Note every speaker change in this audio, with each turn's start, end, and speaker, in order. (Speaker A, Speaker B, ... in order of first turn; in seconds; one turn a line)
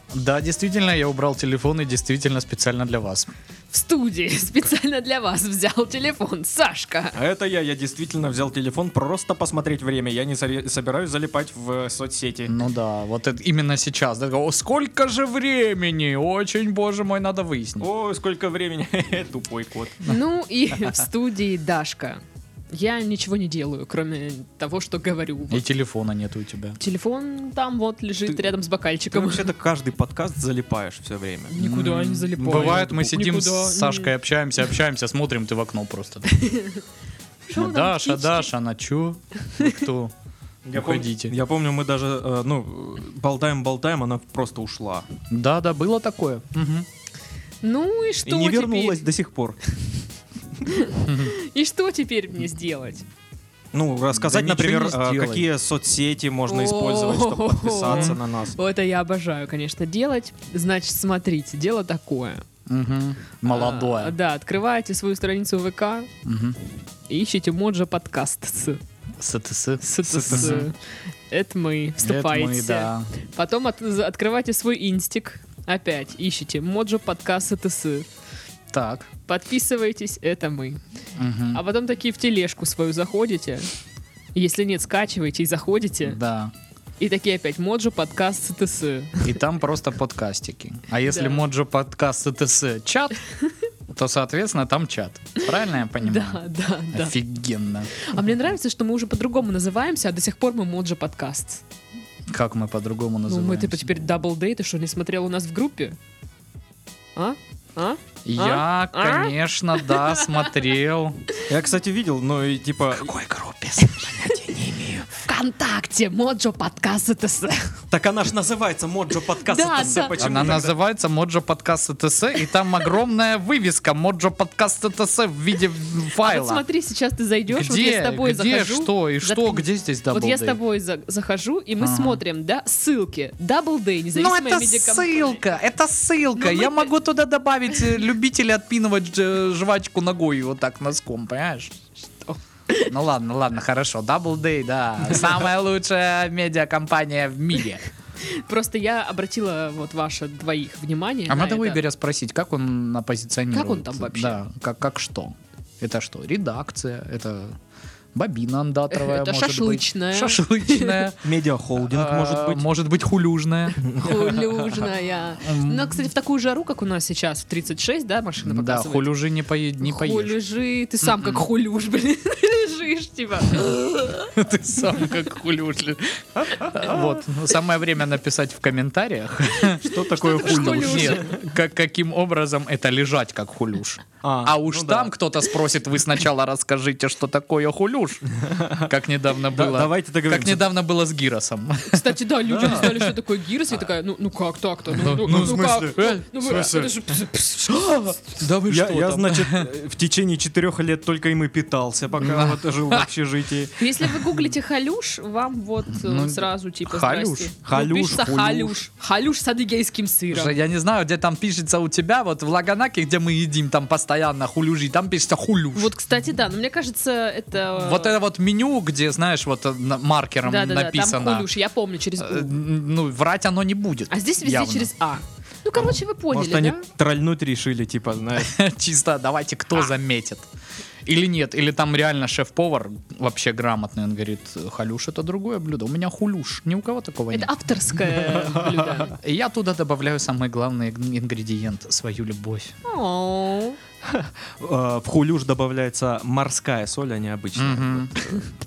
Speaker A: 0.1-3.3
Speaker B: 3.7-7.2
Speaker C: 7.1-12.6
Speaker A: 12.5-17.9
Speaker C: 17.8-20.0
Speaker B: 20.1-25.6
Speaker A: 25.5-26.8
Speaker B: 26.8-29.5
Speaker C: 29.1-31.6
Speaker B: 31.5-34.1
Speaker A: 31.6-36.3
Speaker C: 32.4-32.9
Speaker B: 36.3-36.8
Speaker B: 37.5-38.5
Speaker A: 37.5-40.1
Speaker C: 40.6-45.0
Speaker A: 40.7-41.3
Speaker A: 45.3-46.9
Speaker B: 47.6-49.0
Speaker C: 48.2-49.6
Speaker B: 50.6-53.0
Speaker A: 51.0-51.3
Speaker C: 53.7-58.6
Speaker A: 54.1-55.5
Speaker B: 56.5-62.4
Speaker A: 57.9-58.2
Speaker A: 62.7-64.2
Speaker B: 63.5-66.1
Speaker A: 66.2-66.6
Speaker B: 67.1-68.8
Speaker A: 69.2-70.7
Speaker B: 69.8-70.8
Speaker C: 70.0-70.6
Speaker B: 71.3-78.1
Speaker A: 72.0-73.1
Speaker A: 78.7-79.1
Speaker B: 79.2-80.8
Speaker A: 81.2-81.6
Speaker B: 81.5-83.7
Speaker B: 84.3-86.2
Speaker A: 86.0-86.5
Speaker B: 87.0-89.3
Speaker A: 89.2-93.2
Speaker B: 91.1-91.4
Speaker A: 93.9-98.1
Speaker B: 96.0-97.2
Speaker B: 98.0-101.6
Speaker A: 102.3-103.9
Speaker B: 103.3-106.0
Speaker B: 107.2-110.3
Speaker A: 108.2-111.3
Speaker C: 111.4-113.1
Speaker A: 112.9-114.7
Speaker B: 114.0-114.3
Speaker C: 114.0-115.0
Speaker B: 115.1-117.8
Speaker C: 117.9-120.7
Speaker B: 119.4-120.5
Speaker A: 120.0-126.6
Speaker B: 126.2-135.4
Speaker A: 127.5-130.6
Speaker A: 131.8-132.2
Speaker A: 134.1-141.8
Speaker B: 136.4-136.9
Speaker B: 142.3-142.9
Speaker A: 142.9-147.8
Speaker B: 148.2-151.8
Speaker A: 151.3-157.6
Speaker B: 153.5-154.4
Speaker A: 158.1-161.2
Speaker B: 158.9-161.1
Speaker C: 161.2-162.6
Speaker A: 161.8-163.8
Speaker C: 163.8-164.7
Speaker B: 163.8-169.1
Speaker A: 165.4-166.1
Speaker A: 168.4-170.3
Speaker B: 169.8-174.3
Speaker A: 171.0-171.4
Speaker A: 174.3-188.2
Speaker C: 176.5-177.1
Speaker B: 179.7-181.3
Speaker C: 179.8-181.4
Speaker C: 184.2-185.1
Speaker C: 188.4-188.9
Speaker A: 188.8-193.1
Speaker C: 189.5-190.7
Speaker B: 191.9-198.2
Speaker A: 194.9-196.9
Speaker C: 195.2-196.0
Speaker A: 198.3-199.7
Speaker C: 198.6-203.8
Speaker A: 202.2-203.1
Speaker B: 203.8-210.6
Speaker A: 205.9-207.5
Speaker C: 207.6-208.8
Speaker A: 210.3-215.9
Speaker B: 215.7-218.2
Speaker A: 217.8-221.5
Speaker B: 220.4-222.5
Speaker A: 222.2-224.9
Speaker B: 224.1-226.8
Speaker C: 225.8-228.5
Speaker A: 228.4-230.4
Speaker A: 231.1-237.5
Speaker B: 237.3-239.2
Speaker A: 239.1-242.7
Speaker B: 242.8-243.8
Speaker C: 244.0-248.4
Speaker A: 247.6-248.4